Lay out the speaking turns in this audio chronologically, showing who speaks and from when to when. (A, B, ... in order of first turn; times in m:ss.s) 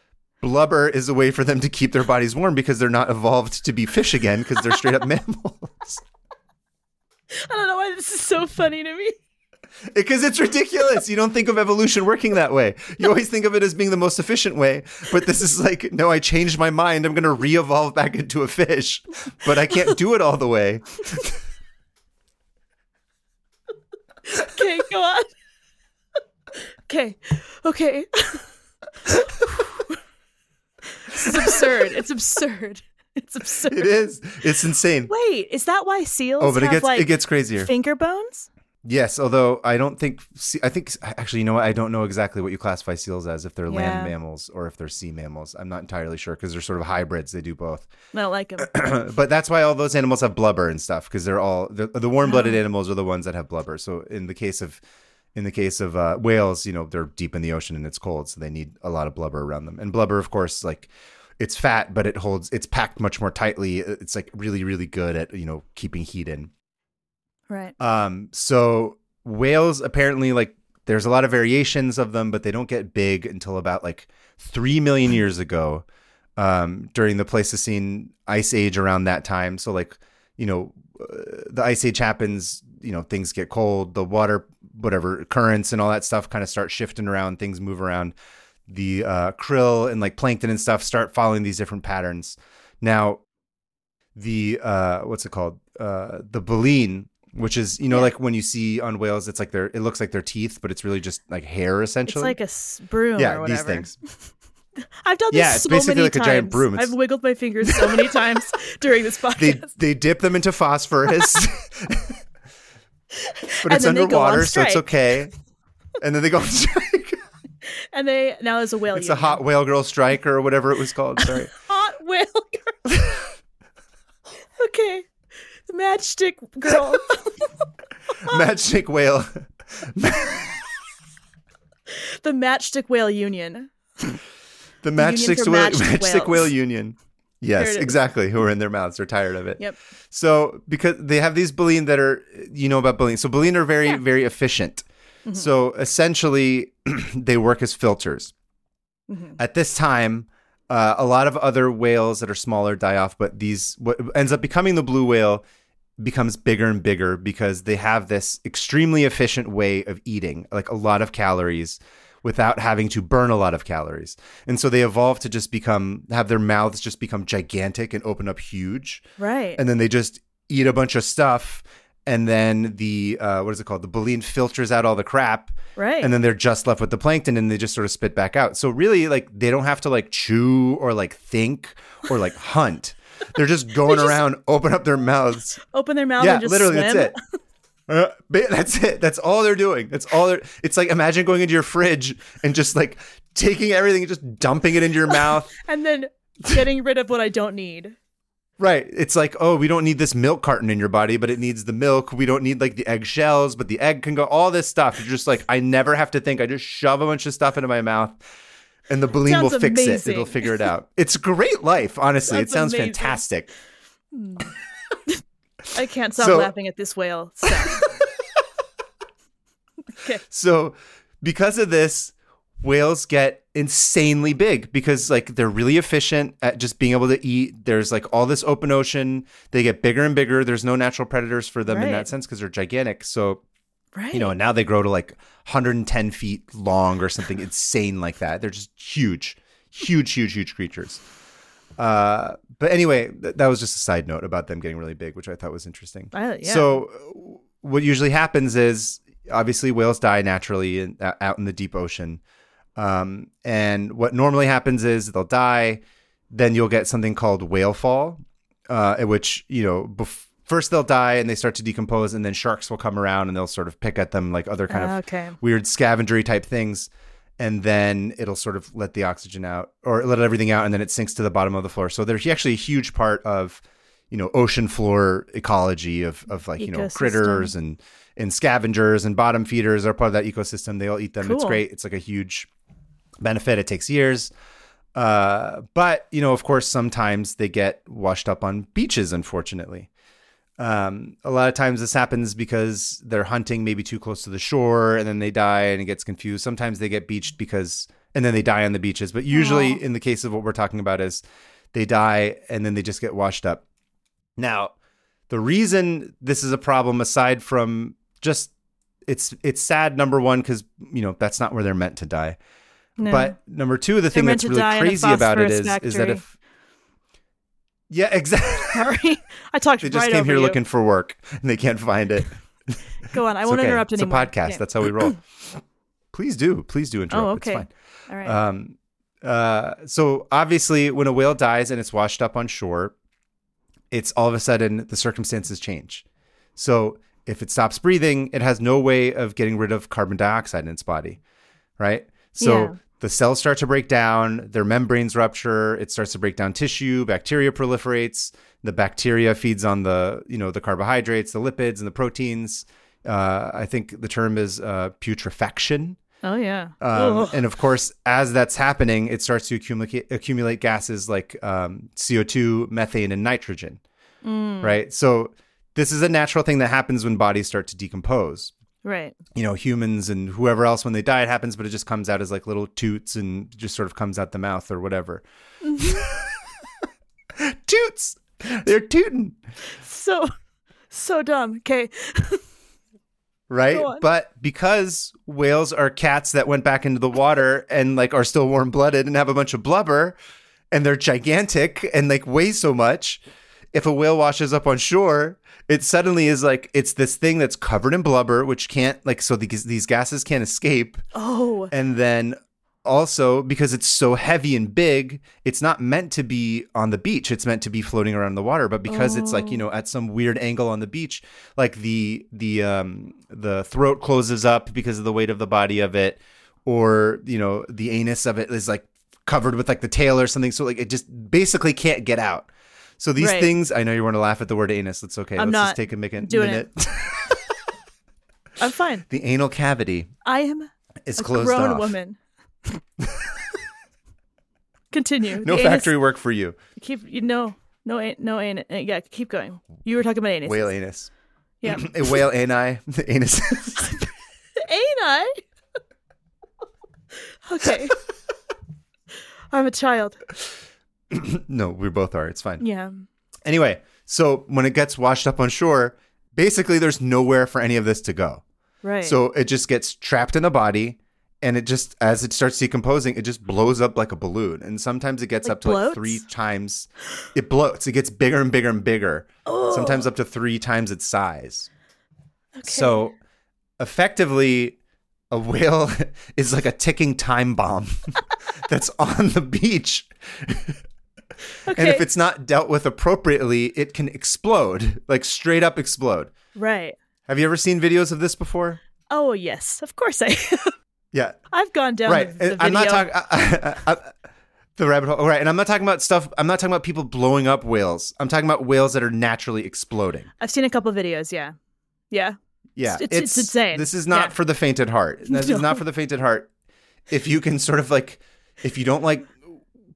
0:00.4-0:06.0 A
0:07.3-0:09.2 B
0:09.9-0:21.4 A
0:24.3-0:25.3 B
0:26.9-0:28.5 B
0:29.0-0:30.0 B
0:31.0-0:34.0 B
0:31.3-0:31.6 A
0:33.7-0:35.1 A
0:35.1-0:38.5 B
0:36.4-0:37.7 A
0:38.8-0:47.9 A
0:43.7-0:44.1 B
0:48.1-0:48.7 B
0:48.6-0:54.8 A
0:52.2-0:52.6 B
0:55.4-1:06.5 A
1:07.5-1:07.8 B
1:07.8-1:15.8 A
1:16.4-1:28.1 A
1:28.7-1:33.2 A
1:34.2-1:42.4 A
1:42.1-1:43.9 B
1:43.2-1:43.9 A
1:45.0-1:49.7 B
1:45.3-1:47.0 A
1:47.7-1:48.2 A
1:49.4-1:52.2 A
1:53.2-1:54.9 B
1:53.6-1:55.3 A
1:56.0-1:57.2 A
1:57.9-1:59.4 B
1:58.9-2:01.5 A
2:01.2-2:02.9 B
2:04.6-2:05.1 B
2:05.7-2:07.5 B
2:08.2-2:10.6 A
2:11.9-2:14.2 B
2:14.8-2:28.3 A
2:15.0-2:16.5 B
2:17.6-2:18.0 B
2:29.1-2:29.4 B
2:29.4-2:35.5 A
2:36.0-2:49.0 A
2:49.2-2:49.6 B
2:49.6-3:05.6 A
2:55.8-2:56.1 B
3:03.9-3:04.2 B
3:05.7-3:07.2 B
3:06.2-3:07.1 A
3:07.9-3:15.5 A
3:15.6-3:18.0 B
3:18.6-3:28.2 A
3:28.9-3:33.5 A
3:29.2-3:30.7 B
3:32.3-3:33.2 B
3:34.1-3:34.5 B
3:35.7-3:37.9 B
3:36.2-3:36.5 A
3:37.6-3:37.9 A
3:40.0-3:40.2 B
3:40.2-3:53.4 A
3:51.7-3:52.1 B
3:54.0-3:54.3 B
3:54.1-4:01.0 A
4:01.8-4:12.2 A
4:06.1-4:06.8 B
4:12.8-4:42.5 A
4:24.7-4:25.4 B
4:36.6-4:37.5 B
4:41.2-4:41.6 B
4:43.2-4:44.3 A
4:45.0-4:49.9 A
4:50.6-5:03.6 A
4:59.3-4:59.8 B
5:04.4-5:04.7 A
5:05.3-5:08.5 A
5:09.0-5:12.4 A
5:13.0-5:13.4 B
5:13.1-5:16.3 A
5:14.1-5:16.2 B
5:17.9-5:18.9 A
5:18.7-5:20.6 B
5:19.8-5:22.8 A
5:23.1-5:25.2 B
5:23.4-5:25.6 A
5:26.1-5:27.7 A
5:27.1-5:28.4 B
5:28.2-5:33.0 A
5:33.9-5:36.0 A
5:36.6-5:41.2 A
5:41.8-5:56.0 A
5:42.4-5:42.8 B
5:56.2-5:57.4 B
5:56.8-6:03.8 A
6:04.2-6:04.8 B
6:04.6-6:08.5 A
6:08.8-6:09.2 B
6:09.4-6:15.2 A
6:15.6-6:16.0 B
6:15.8-6:16.4 A
6:17.4-6:19.4 A
6:19.7-6:20.3 B
6:20.9-6:22.4 B
6:23.5-6:30.2 A
6:23.7-6:24.0 B
6:30.7-6:33.2 A
6:33.7-6:41.0 A
6:41.1-6:41.7 B
6:41.7-7:07.4 A
6:48.9-6:49.6 B
7:03.2-7:03.5 B
7:05.4-7:06.7 B
7:08.6-7:09.0 B
7:09.1-7:10.1 A
7:10.2-7:12.2 B
7:11.1-7:12.0 A
7:13.0-7:13.4 A
7:14.9-7:15.9 B
7:15.4-7:16.6 A
7:16.8-7:20.7 B
7:20.5-7:21.1 A
7:21.6-7:22.2 B
7:21.6-7:24.0 A
7:24.6-7:25.4 B
7:27.4-7:28.0 B
7:29.5-7:30.2 B
7:31.1-7:32.6 A
7:32.6-7:33.0 B
7:33.4-7:38.4 A
7:38.8-7:39.2 B
7:39.0-7:51.7 A
7:45.4-7:46.2 B
7:49.5-7:50.1 B
7:52.6-7:53.0 B
7:52.6-7:53.2 A
7:53.8-7:54.8 A
7:55.3-8:00.8 A
8:01.7-8:02.0 B
8:01.7-8:06.3 A
8:06.6-8:07.0 B
8:07.3-8:08.8 A
8:09.1-8:10.8 B
8:11.5-8:13.1 B
8:12.1-8:14.1 A
8:14.8-8:20.3 A
8:20.4-8:21.5 B
8:22.1-8:24.3 B
8:22.8-8:26.5 A
8:25.3-8:25.8 B
8:27.1-8:29.5 A